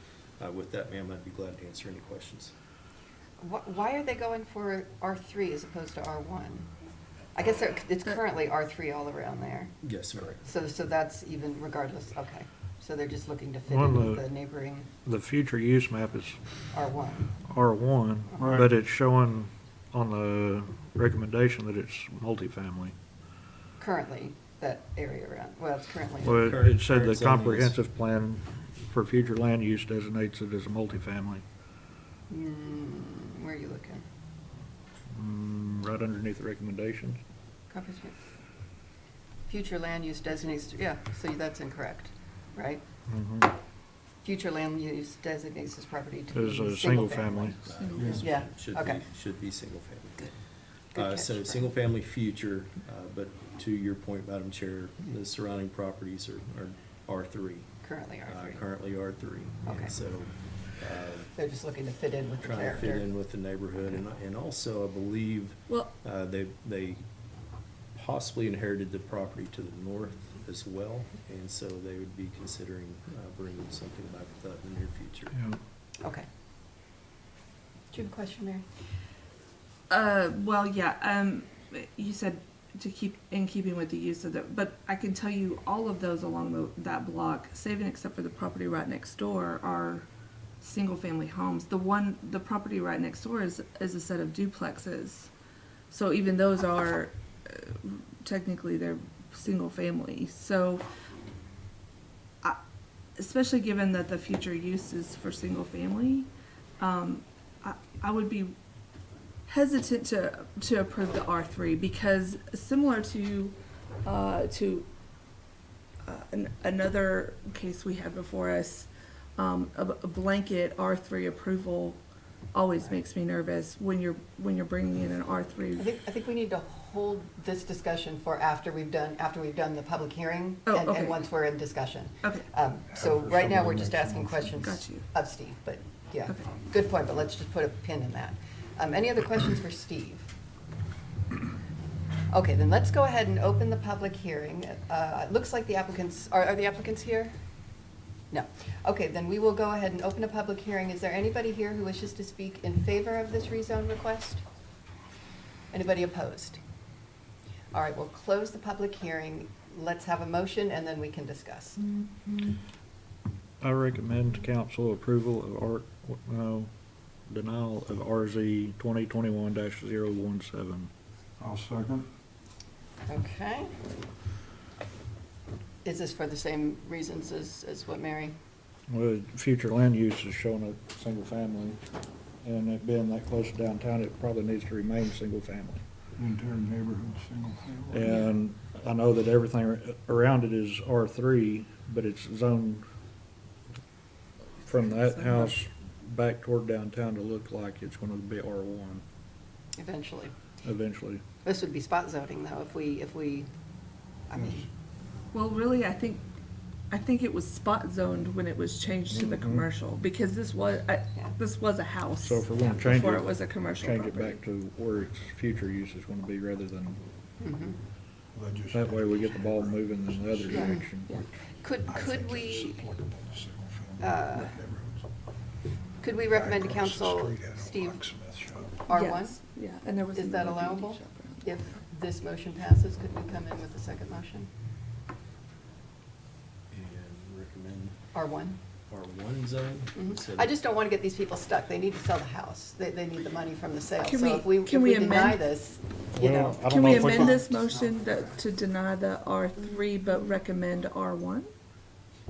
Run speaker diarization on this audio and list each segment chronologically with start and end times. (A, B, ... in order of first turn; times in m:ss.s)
0:00.4-0:02.5 A
0:03.4-0:06.7 B
0:07.3-0:09.7 B
0:09.8-0:10.4 A
0:10.4-0:14.9 B
0:13.7-0:14.2 C
0:15.0-0:16.4 C
0:16.7-0:17.3 B
0:17.4-0:22.9 C
0:18.4-0:18.7 D
0:23.8-0:26.5 B
0:26.2-0:27.8 A
0:26.2-0:31.4 C
0:32.3-0:34.0 B
0:35.1-0:37.2 C
0:37.7-0:38.1 B
0:39.5-0:42.8 B
0:43.1-0:43.6 C
0:44.2-0:47.6 B
0:46.3-0:47.6 C
0:47.6-0:50.3 A
0:47.8-0:48.2 E
0:48.0-0:48.2 D
0:48.1-0:49.0 B
0:50.9-0:51.7 B
0:50.9-0:57.7 A
0:57.8-0:58.6 B
0:58.2-1:01.3 A
0:59.6-0:59.9 B
1:01.4-1:03.1 B
1:02.4-1:07.0 A
1:07.9-1:15.4 A
1:16.0-1:16.2 B
1:17.9-1:18.6 B
1:19.9-1:30.1 E
1:30.6-1:35.3 E
1:35.9-1:40.8 E
1:43.2-1:46.3 E
1:46.8-1:48.6 E
1:49.4-1:54.9 E
1:56.0-2:02.0 E
2:02.5-2:05.9 E
2:05.8-2:20.3 B
2:10.6-2:11.2 E
2:12.9-2:14.6 D
2:14.6-2:15.0 E
2:22.3-2:27.3 B
2:28.3-2:34.4 B
2:35.7-2:36.6 B
2:37.7-2:41.8 B
2:43.6-2:46.7 C
2:47.3-2:50.9 C
2:51.4-2:52.1 D
2:53.0-2:53.8 B
2:55.8-2:58.3 B
2:58.9-3:01.8 C
3:02.4-3:05.8 C
3:06.2-3:08.2 D
3:07.9-3:12.8 C
3:08.0-3:08.3 E
3:14.6-3:19.0 C
3:14.8-3:15.5 E
3:19.8-3:20.3 B
3:20.6-3:21.2 C
3:21.4-3:23.5 B
3:24.3-3:24.7 B
3:24.3-3:24.7 D
3:25.3-3:26.2 E
3:26.9-3:34.4 E
3:29.1-3:29.7 C
3:32.2-3:37.0 C
3:37.4-3:37.8 B
3:38.3-3:40.7 D
3:38.7-3:41.3 C
3:40.5-3:40.9 B
3:41.6-3:42.8 B
3:41.8-3:45.1 D
3:44.0-3:44.6 B
3:46.0-3:48.0 B
3:46.2-3:48.9 D
3:48.9-3:49.4 B
3:48.9-3:51.5 E
3:50.1-3:54.5 B
3:56.7-3:58.0 A
3:58.1-3:58.6 B
3:58.9-4:00.6 A
4:00.0-4:07.5 B
4:04.0-4:05.4 E
4:06.1-4:07.5 C
4:06.7-4:11.5 E